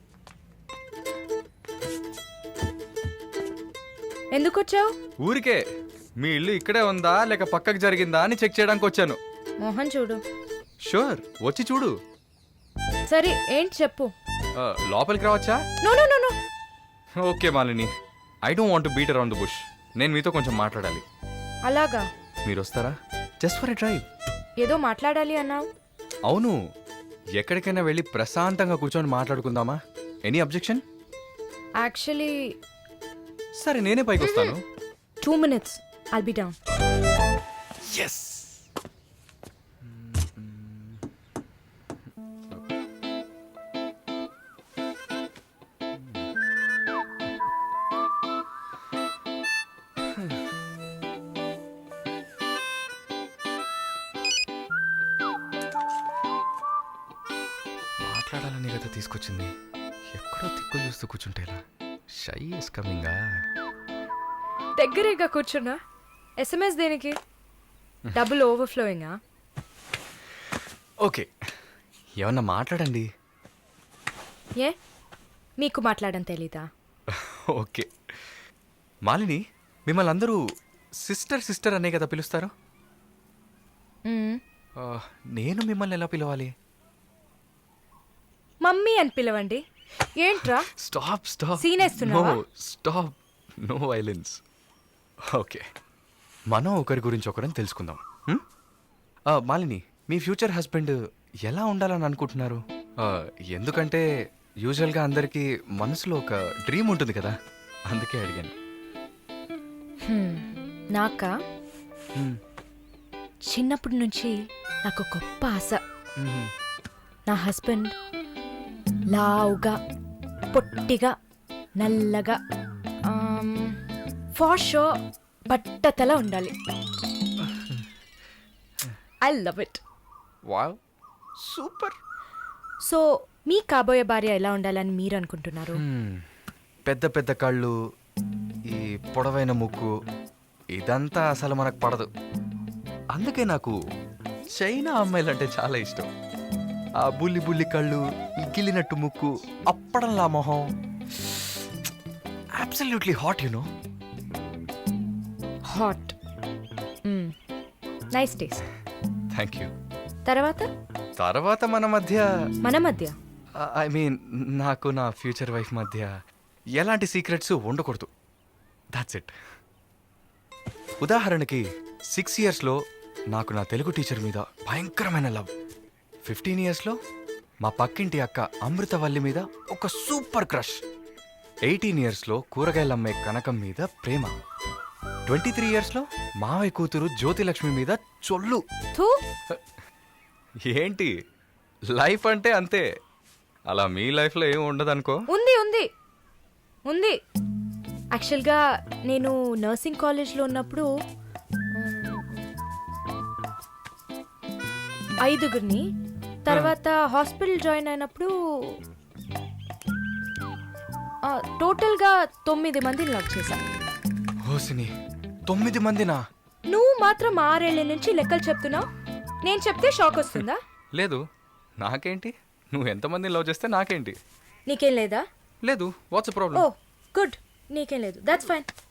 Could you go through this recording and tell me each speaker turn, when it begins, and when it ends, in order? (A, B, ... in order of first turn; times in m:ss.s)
0:04.3-0:04.9 A
0:05.2-0:05.6 B
0:06.2-0:09.2 B
0:09.6-0:10.2 A
0:10.8-0:11.9 B
0:13.1-0:14.1 A
0:14.6-0:15.6 B
0:15.8-0:16.3 A
0:17.2-0:17.9 B
0:18.4-0:21.0 B
0:21.6-0:22.0 A
0:22.4-0:24.0 B
0:24.6-0:25.6 A
0:26.3-0:26.5 B
0:27.4-0:30.8 B
0:31.8-0:32.4 A
0:33.6-0:34.6 B
0:34.2-0:34.5 A
0:35.2-0:36.5 A
0:37.8-0:38.6 B
0:39.8-0:41.0 B
0:45.9-0:46.3 B
0:50.2-0:50.4 B
0:58.0-0:59.5 B
1:00.1-1:01.6 B
1:02.1-1:03.2 B
1:04.8-1:05.8 A
1:06.4-1:07.1 A
1:08.1-1:09.1 A
1:11.0-1:11.3 B
1:12.2-1:13.0 B
1:15.6-1:16.6 A
1:17.1-1:17.9 B
1:19.0-1:20.4 B
1:21.0-1:22.5 B
1:24.1-1:24.4 A
1:24.8-1:26.5 B
1:28.6-1:29.6 A
1:30.2-1:30.7 A
1:30.8-1:34.4 B
1:31.6-1:32.4 A
1:35.3-1:35.6 B
1:36.5-1:38.4 B
1:39.3-1:44.0 B
1:44.6-1:47.3 B
1:47.9-1:48.5 B
1:50.0-1:51.3 A
1:52.1-1:52.4 B
1:53.5-1:54.3 A
1:54.8-1:55.8 A
1:56.2-1:56.5 B
1:57.3-1:57.9 A
1:59.1-1:59.8 A
2:00.5-2:01.1 A
2:01.8-2:02.4 A
2:03.1-2:03.8 A
2:04.3-2:04.9 A
2:05.5-2:06.5 A
2:07.6-2:07.8 B
2:09.2-2:09.8 A
2:10.4-2:10.8 B
2:11.4-2:12.0 B
2:12.8-2:15.8 A
2:15.7-2:16.2 B
2:16.9-2:17.7 B
2:18.7-2:19.9 B
2:20.8-2:22.1 B
2:23.1-2:23.7 B
2:24.5-2:26.1 B
2:27.0-2:31.5 B
2:32.6-2:33.7 B
2:35.7-2:36.1 A
2:37.0-2:37.3 A
2:38.1-2:38.6 A
2:39.3-2:39.7 B
2:40.2-2:40.6 A
2:41.2-2:42.2 B
2:42.6-2:43.1 A
2:43.6-2:46.1 B
2:46.8-2:48.1 B
2:48.9-2:49.3 B
2:51.0-2:52.8 B
2:53.3-2:55.5 B
2:56.2-2:57.0 B
2:57.6-3:00.8 B
3:01.6-3:04.3 B
3:05.3-3:08.6 B
3:10.7-3:11.1 B
3:11.9-3:12.8 B
3:13.7-3:15.2 B
3:15.3-3:15.8 A
3:16.9-3:17.2 A
3:18.1-3:20.9 A
3:21.8-3:22.4 A
3:25.2-3:25.8 A
3:26.4-3:28.3 A
3:31.3-3:33.6 A
3:34.4-3:34.9 B
3:35.5-3:36.2 B
3:36.7-3:38.8 A
3:39.4-3:40.6 A
3:40.9-3:41.2 B
3:41.8-3:44.2 B
3:44.7-3:45.2 A
3:45.6-3:46.6 B
3:46.5-3:48.7 A